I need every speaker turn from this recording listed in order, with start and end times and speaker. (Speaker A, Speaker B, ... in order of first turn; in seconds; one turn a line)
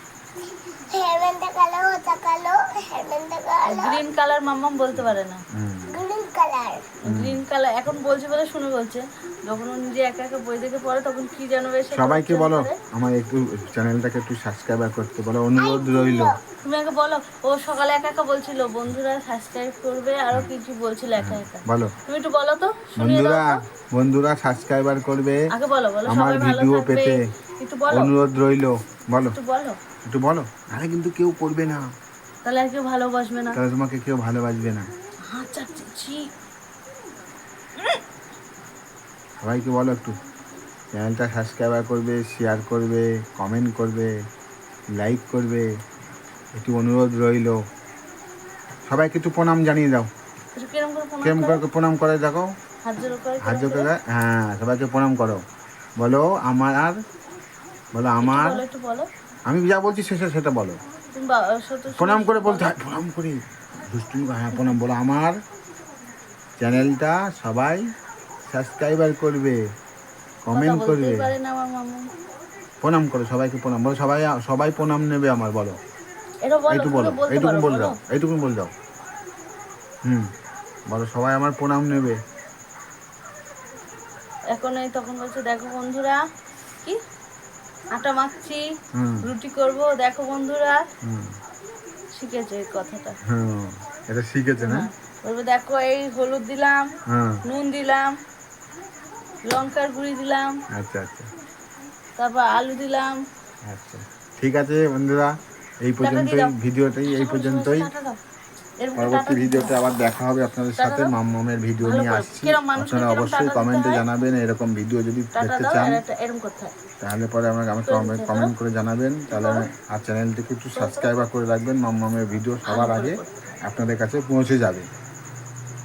Speaker A: 0.6-4.0
Speaker B: 3.6-5.4
Speaker C: 5.5-6.0
Speaker A: 5.9-6.9
Speaker B: 7.0-12.8
Speaker C: 7.1-7.4
Speaker C: 11.9-16.4
Speaker A: 15.6-16.4
Speaker B: 16.6-23.6
Speaker C: 21.2-21.9
Speaker C: 23.0-25.4
Speaker B: 25.5-28.1
Speaker C: 26.1-27.1
Speaker C: 27.9-29.4
Speaker B: 29.3-29.8
Speaker C: 30.1-31.9
Speaker B: 32.4-33.6
Speaker C: 33.5-34.9
Speaker B: 35.3-36.3
Speaker C: 39.4-40.2
Speaker C: 40.9-44.1
Speaker C: 45.0-45.7
Speaker C: 46.6-47.6
Speaker C: 48.9-50.1
Speaker B: 50.5-51.6
Speaker C: 51.2-52.5
Speaker B: 52.8-53.9
Speaker C: 53.4-55.4
Speaker C: 56.0-57.0
Speaker C: 57.9-58.6
Speaker B: 58.2-59.1
Speaker C: 59.5-60.8
Speaker B: 61.1-62.7
Speaker C: 61.9-65.4
Speaker C: 66.6-67.8
Speaker C: 68.5-69.6
Speaker C: 70.5-71.3
Speaker B: 70.5-72.1
Speaker C: 72.8-75.8
Speaker B: 76.4-78.0
Speaker C: 76.7-78.7
Speaker C: 80.0-80.3
Speaker C: 80.9-82.2
Speaker B: 84.5-86.2
Speaker B: 87.9-88.7
Speaker C: 88.9-89.3
Speaker B: 89.2-90.8
Speaker C: 91.0-91.3
Speaker B: 92.1-93.2
Speaker C: 93.2-94.9
Speaker B: 94.6-96.9
Speaker C: 97.1-97.4
Speaker B: 97.5-98.2
Speaker B: 99.5-100.6
Speaker C: 100.7-101.3
Speaker B: 102.2-103.2
Speaker C: 103.7-105.3
Speaker C: 105.8-107.9
Speaker B: 106.0-108.2
Speaker B: 108.8-109.9
Speaker C: 109.0-116.0
Speaker B: 110.8-111.1
Speaker B: 111.8-114.0
Speaker B: 115.3-116.8
Speaker C: 117.0-124.9
Speaker B: 117.9-118.5
Speaker B: 119.3-119.7
Speaker B: 120.8-121.2
Speaker B: 122.7-123.4